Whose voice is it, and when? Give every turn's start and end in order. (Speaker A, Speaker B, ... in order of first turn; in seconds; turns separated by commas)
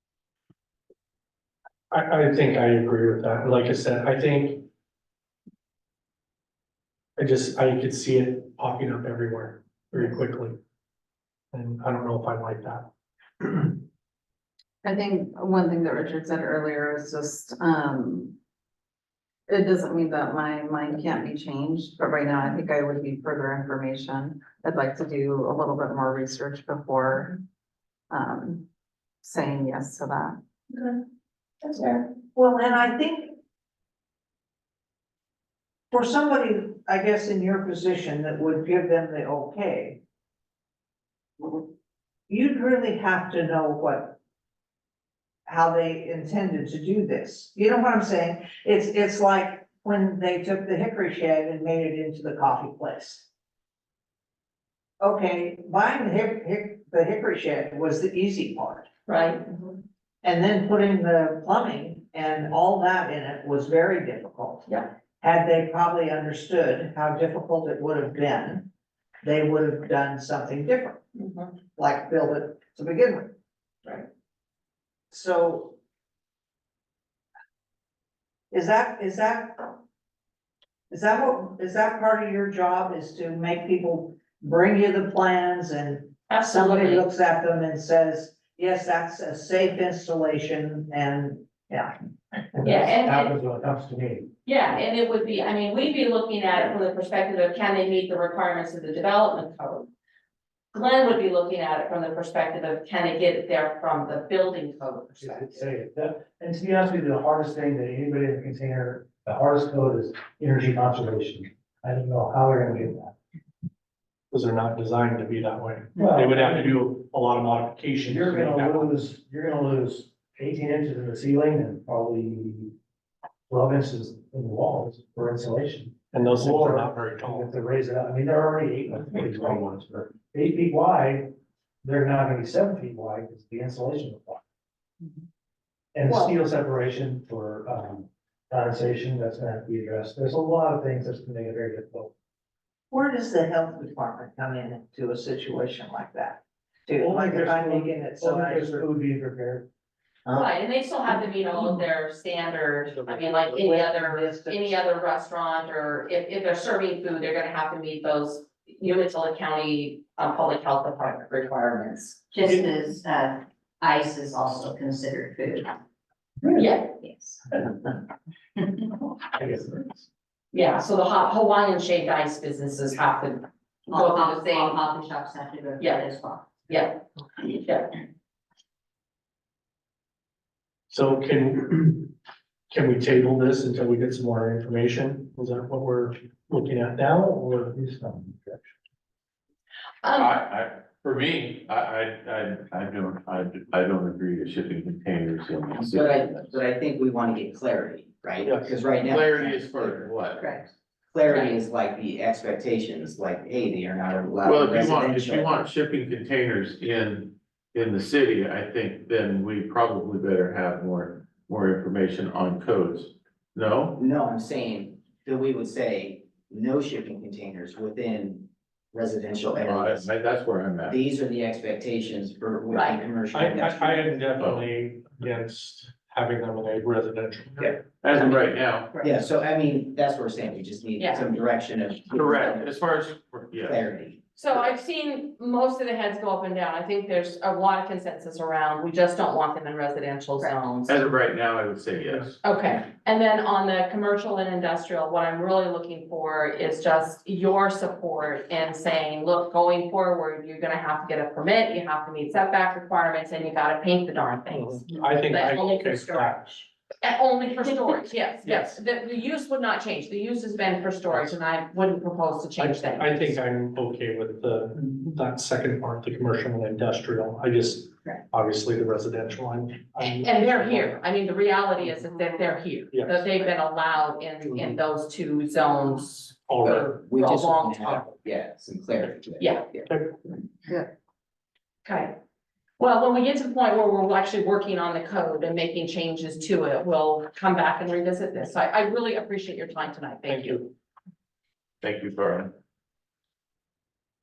Speaker A: 1.9-4.7, Speaker A: 7.2-10.6, Speaker A: 11.5-12.9, Speaker A: 13.4-13.8, Speaker B: 14.8-18.4, Speaker B: 19.5-27.4, Speaker B: 28.1-28.6, Speaker B: 29.2-30.4, Speaker C: 31.6-33.3, Speaker C: 35.9-40.0, Speaker C: 42.3-44.2, Speaker C: 45.5-53.3, Speaker C: 55.0-58.9, Speaker D: 59.1-59.5, Speaker C: 60.2-64.7, Speaker C: 65.2-68.7, Speaker C: 69.2-71.0, Speaker D: 71.1-71.5, Speaker C: 71.8-73.3, Speaker C: 75.1-75.8, Speaker C: 78.5-79.8, Speaker C: 80.9-91.9, Speaker D: 86.3-87.0, Speaker E: 92.5-94.3, Speaker D: 92.6-93.3, Speaker D: 94.5-99.9, Speaker D: 100.7-105.6, Speaker E: 105.2-113.1, Speaker A: 114.3-119.0, Speaker E: 116.0-116.8, Speaker E: 118.0-122.7, Speaker E: 123.5-134.4, Speaker A: 126.1-127.5, Speaker A: 129.1-129.7, Speaker E: 135.9-142.1, Speaker C: 136.1-136.3, Speaker C: 142.9-148.8, Speaker E: 147.0-149.7, Speaker D: 150.3-162.3, Speaker C: 153.3-154.8, Speaker F: 162.3-165.7, Speaker D: 166.5-166.9, Speaker F: 167.0-167.4, Speaker E: 169.3-170.0, Speaker D: 170.5-174.8, Speaker F: 173.9-176.7, Speaker D: 175.8-176.1, Speaker D: 176.7-177.9, Speaker A: 180.9-182.1, Speaker A: 182.7-188.6, Speaker E: 188.1-188.4, Speaker D: 190.0-190.3, Speaker G: 190.2-196.6, Speaker H: 195.8-200.5, Speaker A: 198.4-198.8, Speaker G: 198.8-200.6, Speaker H: 201.1-205.6, Speaker D: 201.3-201.6, Speaker G: 204.4-214.0, Speaker H: 213.9-220.1, Speaker G: 219.6-221.0, Speaker H: 220.8-224.2, Speaker D: 222.7-223.0, Speaker A: 223.3-227.9, Speaker G: 224.4-224.7, Speaker H: 227.6-228.4, Speaker G: 228.0-229.0, Speaker H: 229.0-232.8, Speaker D: 231.0-231.3, Speaker G: 232.1-233.9, Speaker H: 233.5-234.2, Speaker D: 234.3-240.8, Speaker F: 240.4-240.9, Speaker G: 240.8-242.4, Speaker A: 242.0-242.3, Speaker D: 242.4-263.4, Speaker A: 254.5-256.6, Speaker A: 258.4-258.8, Speaker A: 262.6-271.0, Speaker D: 270.2-278.1, Speaker A: 272.9-273.5, Speaker A: 276.5-277.0, Speaker H: 276.6-279.9, Speaker D: 279.4-279.7, Speaker A: 279.9-280.1, Speaker D: 281.8-282.1, Speaker D: 282.8-290.7, Speaker A: 290.3-290.7, Speaker G: 291.8-292.5